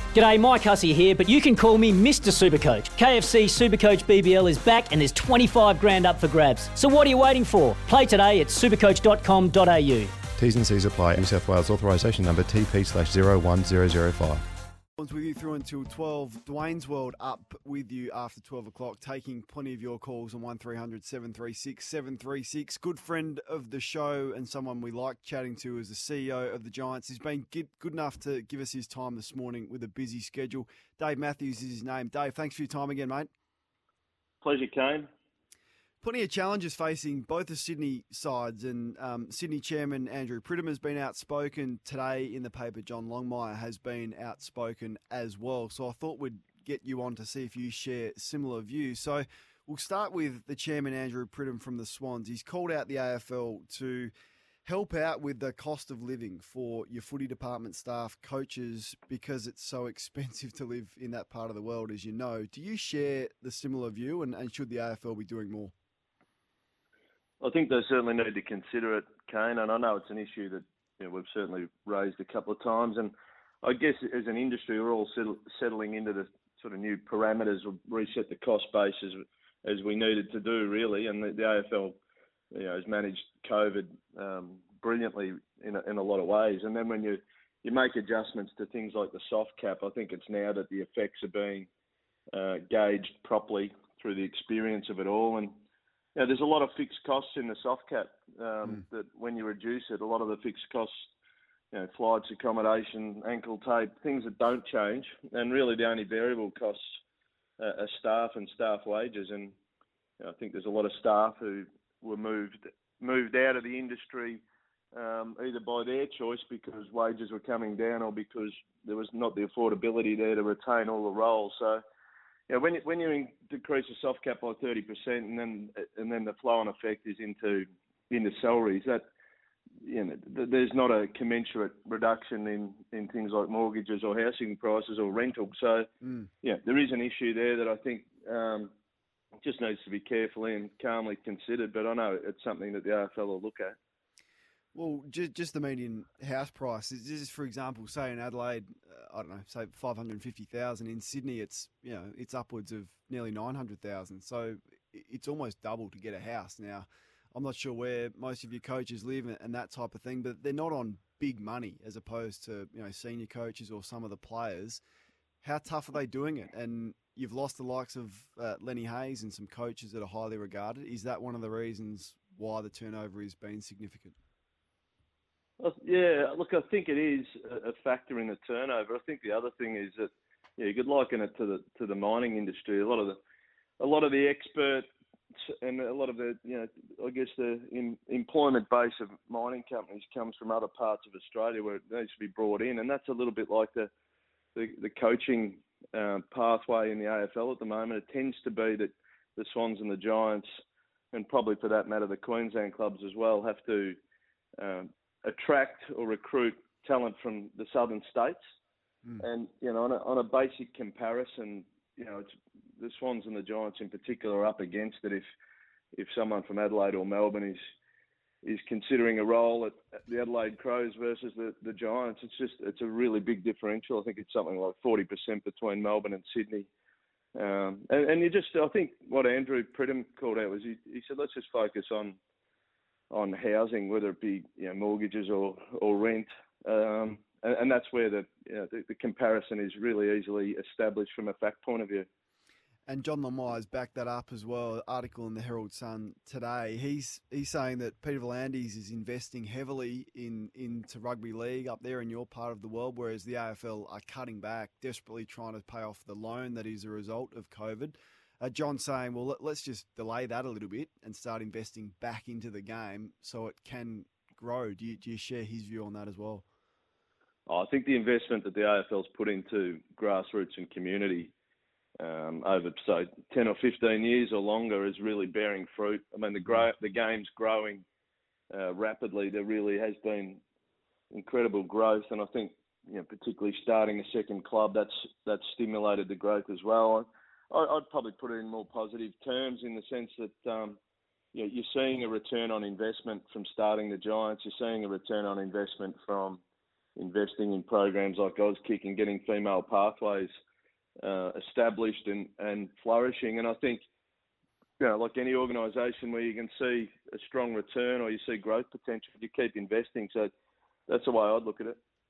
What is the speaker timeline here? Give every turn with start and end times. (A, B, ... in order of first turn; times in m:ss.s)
0:00.1-0:10.1 A
0:10.4-0:14.4 B
0:15.0-0:33.3 C
0:34.4-0:35.1 D
0:36.0-0:54.1 C
0:54.6-1:05.7 C
1:07.4-1:13.1 D
1:13.6-1:22.0 D
1:22.5-1:31.7 D
1:32.3-1:35.5 D
1:36.1-1:41.1 D
1:41.7-1:46.8 D
1:47.6-1:49.5 D
1:50.2-1:54.4 D
1:54.9-2:01.8 D
2:02.5-2:09.0 D
2:09.8-2:15.9 D
2:16.0-2:16.3 C
2:16.4-2:18.7 D
2:19.4-2:23.8 D
2:24.7-2:44.8 C
2:45.4-2:54.1 C
2:55.6-3:03.2 D
3:03.8-3:04.8 D
3:05.5-3:13.9 D
3:14.5-3:20.4 D
3:21.1-3:24.0 D
3:24.6-3:28.4 D
3:29.2-3:35.2 D
3:35.9-3:37.6 D
3:38.4-3:46.7 D
3:47.3-3:52.2 D
3:53.1-4:02.0 D
4:02.9-4:26.4 C
4:27.5-4:31.3 D
4:32.0-4:37.8 D
4:38.5-4:40.4 D
4:41.1-4:50.8 D
4:51.3-4:56.4 D
4:57.0-5:00.3 D
5:01.0-5:03.8 D
5:04.8-5:10.3 D
5:10.9-5:11.8 D